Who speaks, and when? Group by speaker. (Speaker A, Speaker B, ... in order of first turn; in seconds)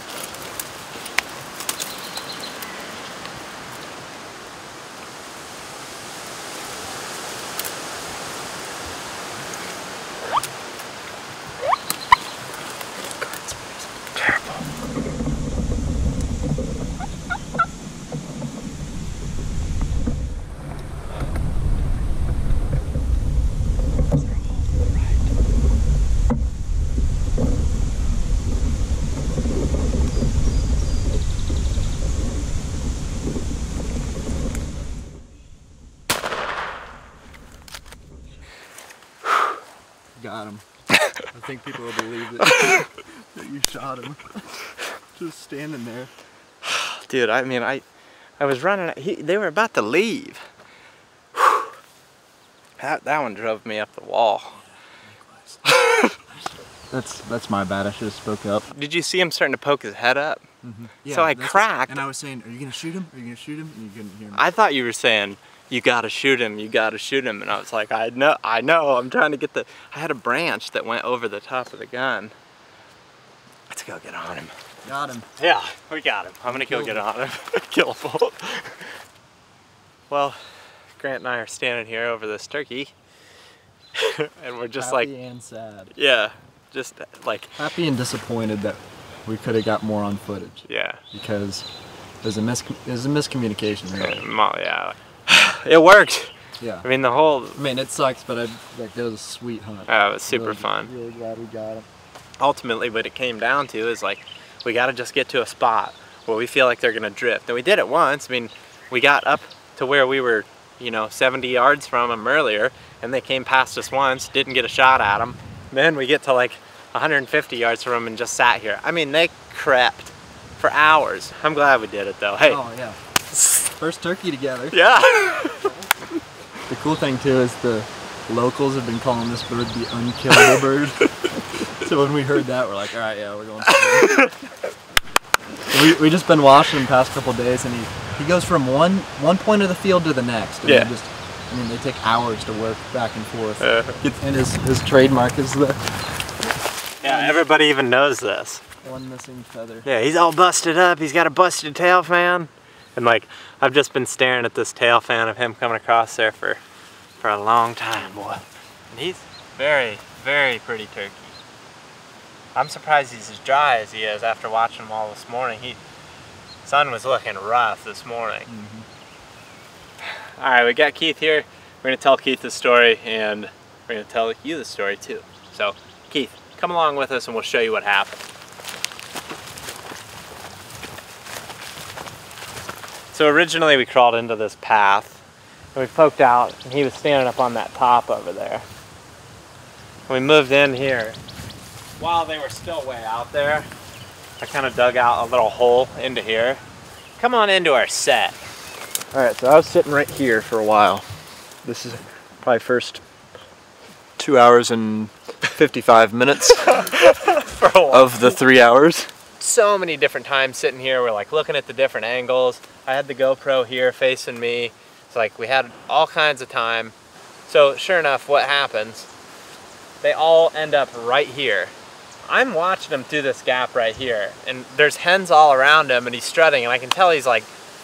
Speaker A: 14.2-14.6, 24.2-25.1, 46.6-47.9, 48.4-50.5, 52.8-54.6, 55.7-56.2, 58.7-60.4, 61.1-62.0, 64.3-72.3, 73.7-74.5, 75.4-78.9, 80.1-80.4, 81.0-82.9, 84.0-85.1, 85.9-87.5, 90.7-91.0, 94.0-97.6, 99.9-100.9, 102.4-122.6, 123.3-123.7, 124.7-125.7, 134.0-134.3, 140.6-140.9, 143.6-144.0, 147.0-148.6, 149.8-156.6, 157.2-161.4, 162.6-165.8, 166.7-168.5, 170.4-178.2, 183.1-185.2, 185.8-188.7, 190.1-191.2, 192.0-193.7, 194.4-196.6, 197.2-198.4, 206.6-208.2, 209.4-216.9, 217.5-219.1, 220.0-221.7, 222.3-227.5
Speaker B: 40.2-40.6, 41.2-46.1, 54.6-55.6, 56.9-58.7, 60.6-64.4, 74.8-75.3, 76.5-77.0, 84.8-85.9, 87.6-91.7, 92.2-94.2, 96.6-96.9, 97.6-101.9, 122.4-123.0, 123.8-124.8, 126.7-131.1, 131.8-134.2, 135.7-145.8, 147.1-147.4, 148.8-149.9, 168.5-168.9, 199.1-201.1, 201.6-203.0, 204.2-206.8, 207.9-209.1